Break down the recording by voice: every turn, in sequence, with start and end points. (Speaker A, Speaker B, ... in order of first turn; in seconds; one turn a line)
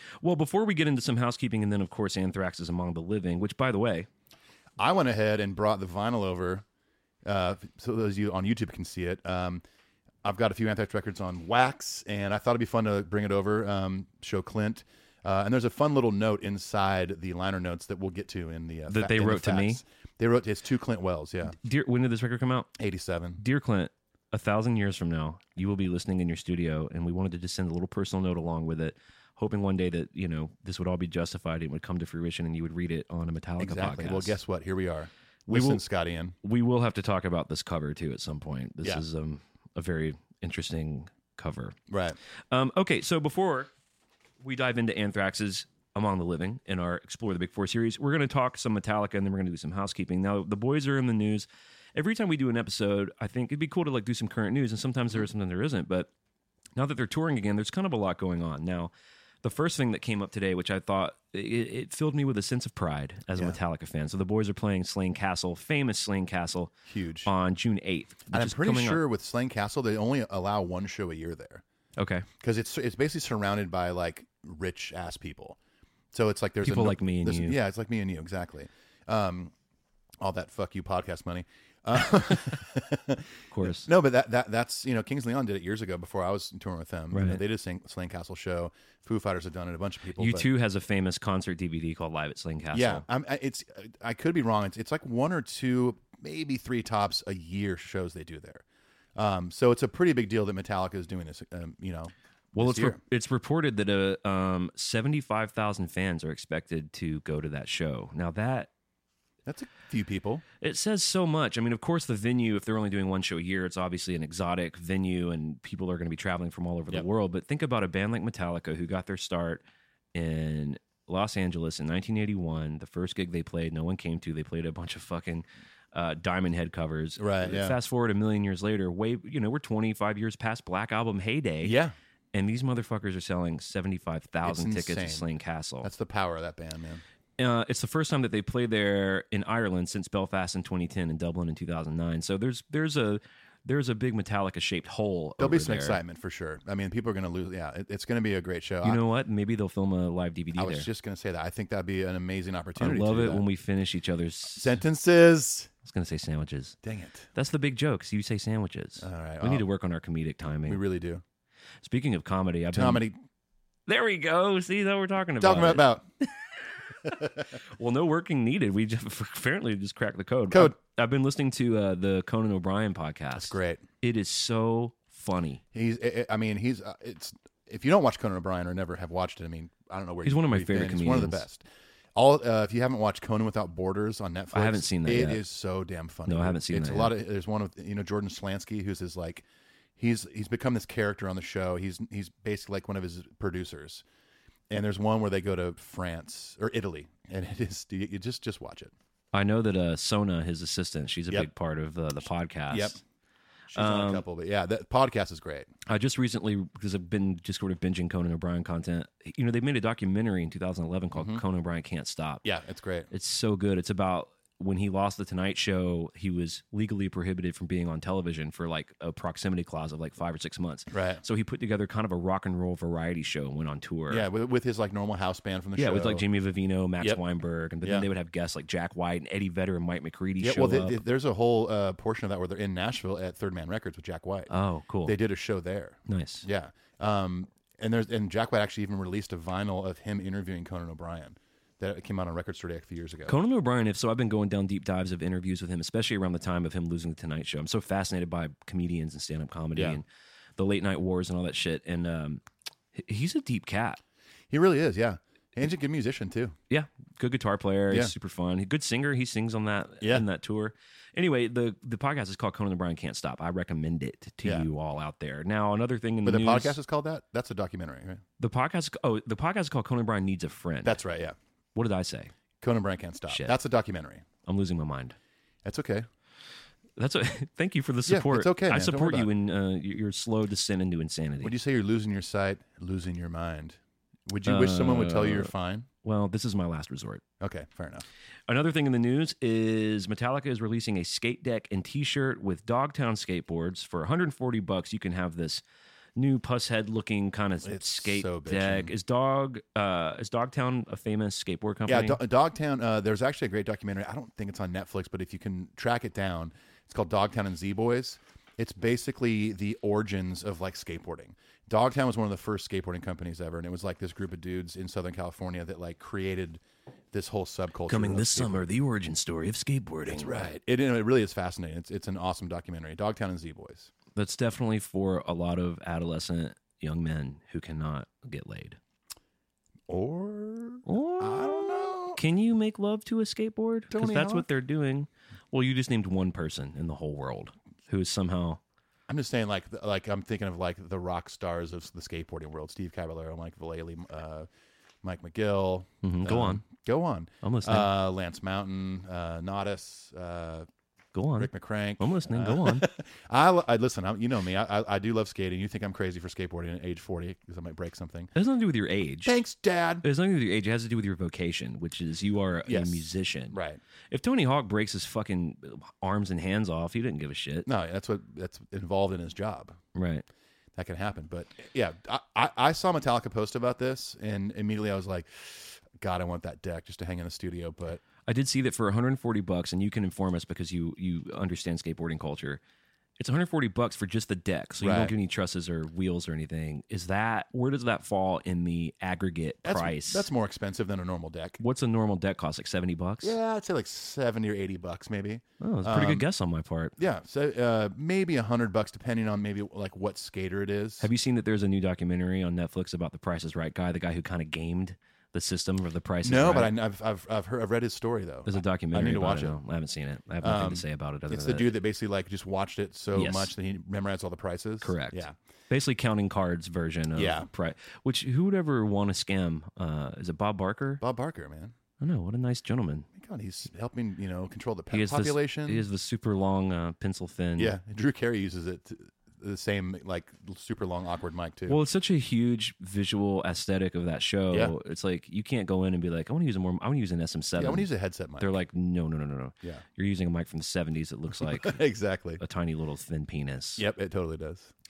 Speaker A: 0.2-4.1
Speaker B: 4.8-6.6
Speaker B: 7.2-9.6
Speaker B: 10.2-21.6
Speaker A: 18.9-19.8
Speaker A: 21.6-22.7
Speaker B: 22.8-23.4
Speaker A: 23.4-34.4
Speaker B: 33.6-36.3
Speaker A: 35.5-35.8
Speaker A: 36.4-41.8
Speaker B: 41.9-42.2
Speaker A: 42.5-43.7
Speaker A: 44.4-56.1
Speaker A: 56.8-58.9
Speaker A: 59.4-66.7
Speaker B: 66.8-67.3
Speaker A: 67.2-69.0
Speaker B: 68.3-71.6
Speaker A: 72.0-72.2
Speaker B: 72.4-75.6
Speaker B: 76.1-79.5
Speaker A: 76.6-77.6
Speaker B: 80.2-90.5
Speaker A: 83.5-83.9
Speaker A: 87.1-87.4
Speaker A: 90.2-93.0
Speaker B: 92.7-98.6
Speaker B: 99.2-103.0
Speaker A: 102.5-108.7
Speaker B: 109.5-110.4
Speaker A: 110.6-119.6
Speaker A: 120.1-131.8
Speaker B: 127.2-127.8
Speaker B: 131.6-131.9
Speaker A: 132.3-135.9
Speaker B: 134.4-135.3
Speaker B: 135.8-137.0
Speaker A: 137.4-146.0
Speaker B: 145.4-149.0
Speaker A: 148.8-150.9
Speaker B: 150.6-153.4
Speaker A: 152.8-154.8
Speaker B: 154.6-155.7
Speaker A: 155.8-156.8
Speaker B: 156.8-157.3
Speaker A: 157.3-160.8
Speaker B: 159.0-159.7
Speaker B: 160.6-161.2
Speaker A: 161.8-163.0
Speaker B: 162.7-163.2
Speaker A: 163.9-165.9
Speaker B: 165.4-166.0
Speaker A: 167.7-175.6
Speaker B: 170.5-170.8
Speaker B: 173.3-173.8
Speaker B: 175.7-189.4
Speaker A: 180.2-181.4
Speaker A: 184.5-185.4
Speaker A: 186.3-187.1
Speaker B: 190.0-194.0
Speaker B: 194.7-198.9
Speaker A: 199.3-203.0
Speaker B: 202.7-203.0
Speaker B: 203.7-205.7
Speaker A: 203.7-204.2
Speaker A: 205.8-212.4
Speaker B: 211.1-211.4
Speaker B: 212.4-213.1
Speaker A: 213.1-224.2
Speaker B: 220.9-221.2
Speaker B: 224.1-226.2
Speaker A: 225.8-231.0
Speaker B: 227.8-228.1
Speaker B: 230.4-234.5
Speaker A: 234.5-235.2
Speaker B: 235.0-243.4
Speaker A: 236.1-236.4
Speaker A: 243.2-250.1
Speaker B: 249.7-250.0
Speaker A: 250.6-252.4
Speaker A: 252.9-254.0
Speaker B: 254.5-256.6
Speaker A: 256.7-266.8
Speaker B: 264.4-264.7
Speaker B: 266.2-268.2
Speaker A: 268.4-271.0
Speaker B: 270.8-271.4
Speaker A: 271.7-272.3
Speaker B: 272.6-274.2
Speaker A: 273.3-273.6
Speaker A: 274.4-275.1
Speaker B: 275.6-276.1
Speaker A: 277.0-281.5
Speaker B: 278.1-279.3
Speaker B: 281.4-285.9
Speaker A: 284.4-285.5
Speaker A: 286.0-287.2
Speaker B: 287.4-288.0
Speaker A: 288.5-295.6
Speaker A: 296.1-302.2
Speaker B: 297.6-298.9
Speaker B: 301.9-316.6
Speaker B: 317.1-318.6
Speaker A: 317.9-320.5
Speaker B: 320.1-323.9
Speaker A: 324.1-328.8
Speaker B: 329.9-332.2
Speaker A: 330.9-331.6
Speaker A: 332.1-338.6
Speaker B: 333.9-334.5
Speaker B: 339.1-344.5
Speaker B: 345.0-350.7
Speaker A: 346.0-346.6
Speaker A: 347.4-347.9
Speaker A: 351.1-352.9
Speaker B: 351.4-358.3
Speaker A: 358.3-359.4
Speaker B: 359.2-360.0
Speaker A: 360.0-363.6
Speaker B: 362.6-363.8
Speaker A: 364.1-367.7
Speaker B: 367.6-369.8
Speaker A: 369.9-370.2
Speaker B: 370.8-378.0
Speaker A: 378.2-382.6
Speaker A: 383.2-390.3
Speaker B: 384.8-385.1
Speaker B: 389.6-391.6
Speaker A: 391.6-393.3
Speaker B: 393.2-396.2
Speaker A: 395.6-396.9
Speaker B: 397.0-401.1
Speaker A: 401.0-406.7
Speaker B: 406.2-409.6
Speaker A: 408.4-411.7
Speaker B: 410.4-415.4
Speaker A: 413.1-413.5
Speaker A: 414.8-421.0
Speaker B: 417.1-417.5
Speaker B: 421.0-421.7
Speaker A: 422.0-423.1
Speaker B: 423.1-425.8
Speaker A: 424.9-427.7
Speaker B: 427.6-431.8
Speaker A: 431.7-437.9
Speaker B: 437.6-438.6
Speaker A: 438.4-441.8
Speaker B: 441.4-442.4
Speaker A: 442.4-443.8
Speaker B: 443.8-444.7